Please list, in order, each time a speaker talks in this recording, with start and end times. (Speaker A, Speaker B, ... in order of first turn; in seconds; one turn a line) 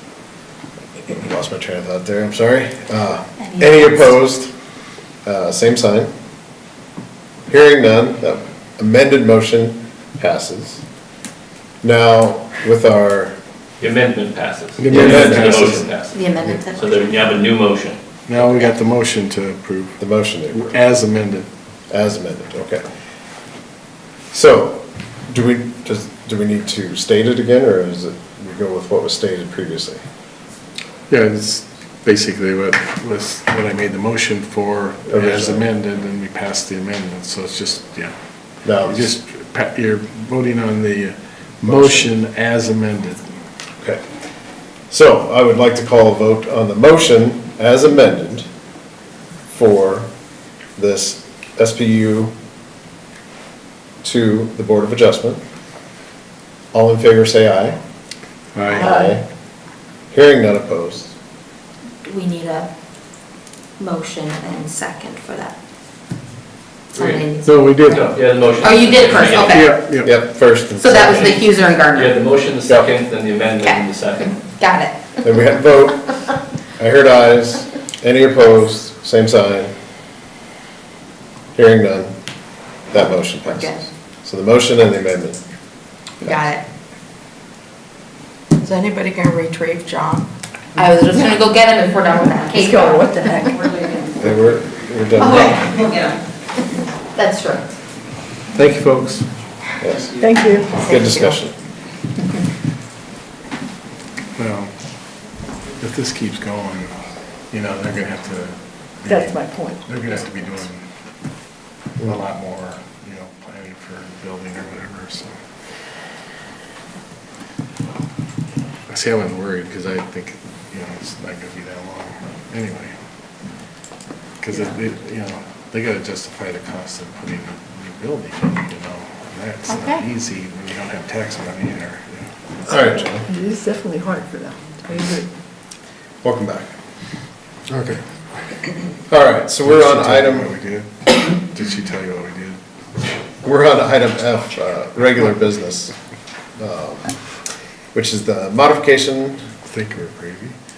Speaker A: 1.1-4.5
Speaker B: 3.4-4.2
Speaker A: 5.2-6.1
Speaker A: 7.5-10.8
Speaker A: 11.8-13.3
Speaker C: 13.8-16.1
Speaker D: 14.8-16.0
Speaker B: 16.1-17.1
Speaker C: 16.8-18.0
Speaker D: 18.3-20.0
Speaker A: 20.0-20.8
Speaker D: 20.5-21.5
Speaker A: 21.9-22.9
Speaker A: 24.3-30.0
Speaker D: 31.1-38.1
Speaker A: 35.1-35.7
Speaker A: 38.6-39.1
Speaker D: 38.9-43.3
Speaker A: 41.6-42.1
Speaker A: 44.9-48.5
Speaker A: 49.5-50.1
Speaker A: 50.8-52.4
Speaker A: 54.0-55.4
Speaker A: 56.7-57.8
Speaker D: 58.5-58.9
Speaker A: 58.7-59.2
Speaker E: 58.8-59.2
Speaker A: 60.1-61.1
Speaker B: 62.0-62.7
Speaker B: 63.8-65.6
Speaker B: 66.9-69.8
Speaker C: 67.0-67.3
Speaker D: 67.5-68.0
Speaker C: 67.9-69.7
Speaker D: 69.5-70.2
Speaker A: 70.0-71.3
Speaker B: 70.8-72.2
Speaker C: 70.9-74.4
Speaker B: 73.6-75.2
Speaker A: 75.2-76.1
Speaker A: 76.8-79.7
Speaker A: 81.5-82.1
Speaker A: 82.9-85.4
Speaker B: 83.6-83.9
Speaker B: 86.2-86.6
Speaker A: 86.2-86.5
Speaker F: 88.6-90.3
Speaker B: 90.8-94.2
Speaker E: 92.5-93.7
Speaker A: 94.2-95.6
Speaker B: 95.2-96.2
Speaker B: 97.1-97.7
Speaker D: 98.5-99.3
Speaker A: 99.8-100.1
Speaker E: 100.2-100.7
Speaker F: 100.7-101.4
Speaker A: 100.8-101.5
Speaker D: 104.4-104.7
Speaker D: 105.8-106.9
Speaker D: 107.5-110.8
Speaker E: 109.1-109.8
Speaker D: 112.0-115.4
Speaker D: 118.9-122.9
Speaker D: 124.4-132.3
Speaker B: 129.7-130.1
Speaker A: 132.7-133.3
Speaker E: 133.3-135.3
Speaker A: 136.2-136.7
Speaker D: 137.7-138.0
Speaker A: 139.1-140.5
Speaker D: 139.6-142.6
Speaker A: 143.4-145.9
Speaker A: 146.6-147.1
Speaker A: 147.9-149.4
Speaker D: 149.7-150.5